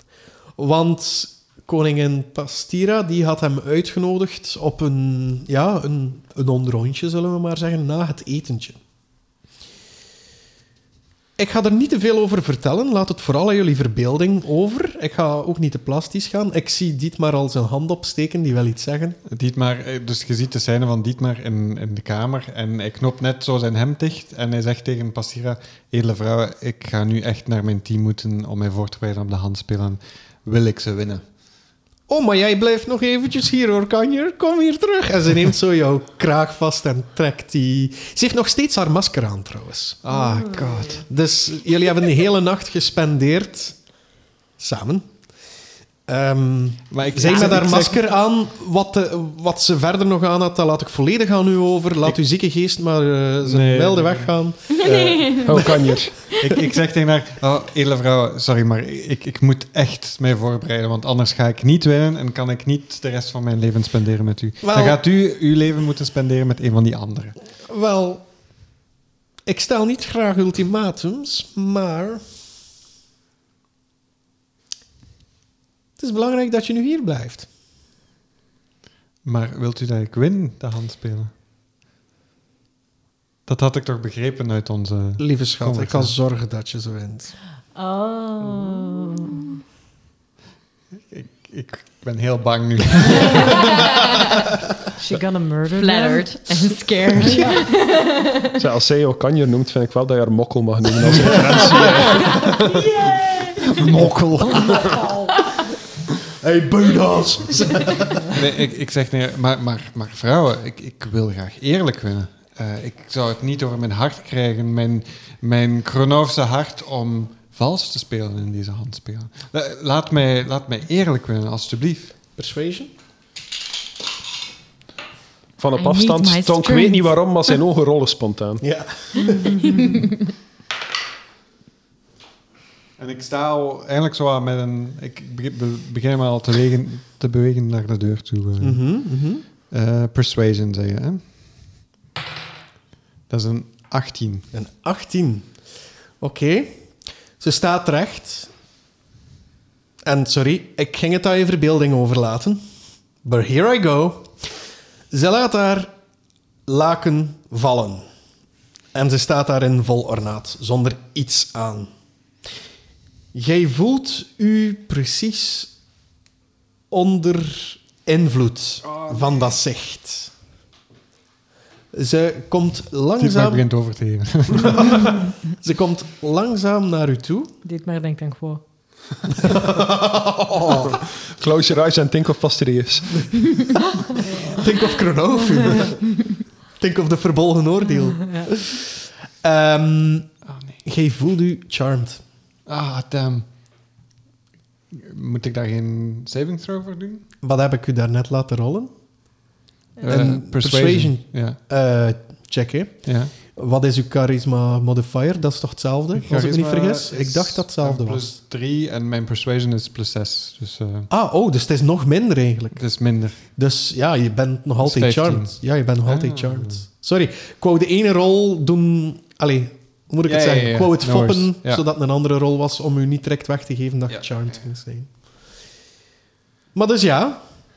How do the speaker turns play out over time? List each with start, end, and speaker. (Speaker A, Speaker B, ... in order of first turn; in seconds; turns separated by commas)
Speaker A: 0.6-8.8, Speaker A: 11.4-19.2, Speaker B: 19.3-31.2, Speaker A: 32.1-43.8, Speaker B: 40.0-41.1, Speaker C: 40.2-41.0, Speaker A: 44.6-45.2, Speaker A: 46.1-54.9, Speaker B: 46.9-48.1, Speaker B: 53.4-54.3, Speaker D: 54.8-55.3, Speaker E: 54.9-56.3, Speaker A: 55.5-56.5, Speaker B: 56.4-67.3, Speaker A: 64.6-65.0, Speaker A: 67.7-68.2, Speaker A: 69.5-72.2, Speaker A: 76.0-77.5, Speaker B: 79.2-81.3, Speaker B: 83.5-86.2, Speaker A: 85.2-87.3, Speaker C: 87.7-89.6, Speaker B: 91.1-94.4, Speaker C: 95.0-96.4, Speaker D: 95.8-98.5, Speaker C: 97.2-97.7, Speaker E: 98.6-102.9, Speaker B: 101.2-101.6, Speaker C: 102.0-103.9, Speaker A: 103.7-105.0, Speaker B: 103.8-104.8, Speaker C: 104.4-105.6, Speaker A: 106.4-108.4, Speaker B: 108.3-122.2, Speaker A: 122.4-122.9, Speaker E: 125.6-128.6, Speaker D: 125.8-127.6, Speaker A: 128.6-129.8, Speaker C: 129.4-129.9, Speaker B: 133.0-138.9, Speaker A: 138.6-139.4, Speaker B: 139.7-141.2, Speaker B: 143.3-144.5, Speaker A: 144.5-145.5, Speaker A: 146.2-148.5, Speaker A: 150.0-152.6, Speaker A: 153.2-154.5, Speaker A: 155.1-155.9, Speaker A: 156.7-158.1, Speaker A: 158.9-161.9, Speaker A: 163.3-165.7, Speaker A: 166.9-170.3, Speaker A: 171.9-173.7, Speaker B: 173.2-174.9, Speaker A: 174.8-177.5, Speaker C: 177.7-178.6, Speaker A: 179.4-181.0, Speaker E: 180.8-183.7, Speaker A: 184.5-186.0, Speaker A: 186.8-192.2, Speaker C: 188.0-188.6, Speaker B: 190.5-190.8, Speaker B: 192.7-193.5, Speaker B: 194.9-197.2, Speaker A: 197.4-198.9, Speaker B: 200.0-201.6, Speaker A: 200.0-208.4, Speaker B: 203.1-203.3, Speaker B: 206.2-211.1, Speaker A: 211.1-212.9, Speaker B: 212.8-213.4, Speaker A: 213.4-225.1, Speaker B: 214.8-216.8, Speaker B: 220.3-221.8, Speaker B: 224.1-224.6, Speaker A: 226.7-227.4